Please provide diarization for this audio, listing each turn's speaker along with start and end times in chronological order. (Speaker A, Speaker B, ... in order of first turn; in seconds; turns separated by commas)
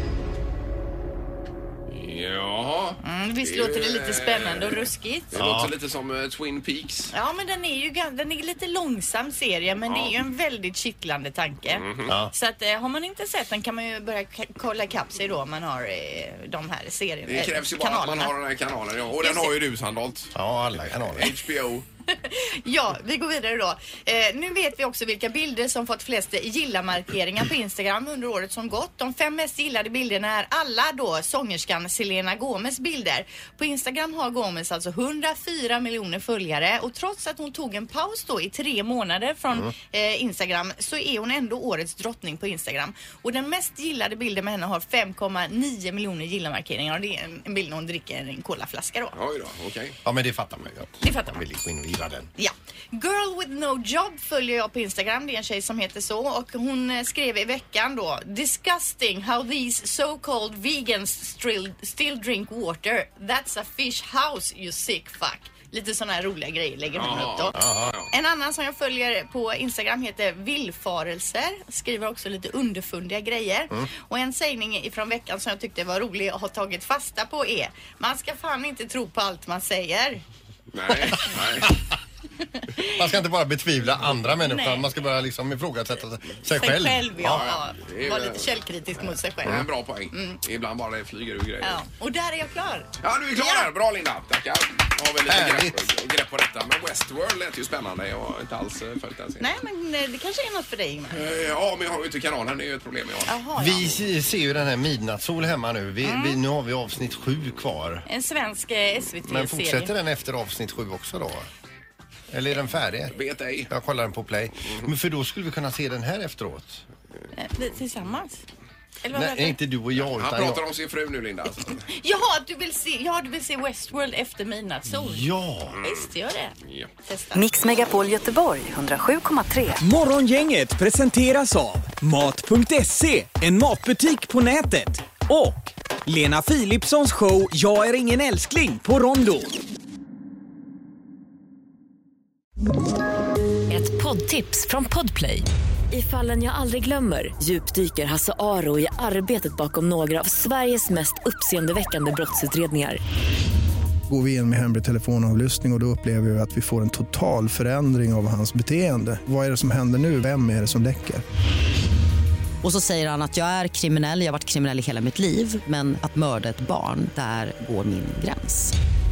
Speaker A: 1.9-7.1, Speaker B: 3.0-5.3, Speaker C: 5.3-5.7, Speaker B: 7.1-18.3, Speaker A: 9.9-10.1, Speaker A: 11.8-12.1, Speaker C: 12.1-12.3, Speaker A: 17.3-21.9, Speaker B: 19.2-19.5, Speaker C: 20.3-21.3, Speaker B: 22.1-49.1, Speaker A: 49.1-50.0, Speaker C: 50.0-52.3, Speaker B: 51.0-51.4, Speaker B: 52.4-67.6, Speaker A: 66.9-68.1, Speaker C: 67.5-68.0, Speaker B: 68.1-80.2, Speaker A: 80.7-81.7, Speaker B: 82.6-83.0, Speaker C: 82.8-87.5, Speaker B: 84.4-84.9, Speaker B: 86.5-90.4, Speaker A: 87.2-88.5, Speaker A: 89.4-91.8, Speaker B: 91.6-93.7, Speaker A: 93.0-99.5, Speaker C: 95.3-95.9, Speaker B: 99.4-101.2, Speaker A: 101.1-103.3, Speaker B: 103.3-103.9, Speaker C: 103.6-108.0, Speaker B: 106.0-106.4, Speaker B: 108.1-109.9, Speaker C: 109.2-111.5, Speaker C: 112.3-113.1, Speaker A: 113.1-113.7, Speaker C: 113.7-116.8, Speaker B: 117.3-118.4, Speaker B: 119.0-119.6, Speaker C: 119.1-120.6, Speaker A: 120.0-121.8, Speaker B: 121.8-127.5, Speaker C: 124.9-125.8, Speaker A: 125.7-126.0, Speaker D: 127.3-129.8, Speaker E: 129.8-139.5, Speaker D: 143.7-153.0, Speaker F: 154.1-161.2, Speaker G: 162.6-168.7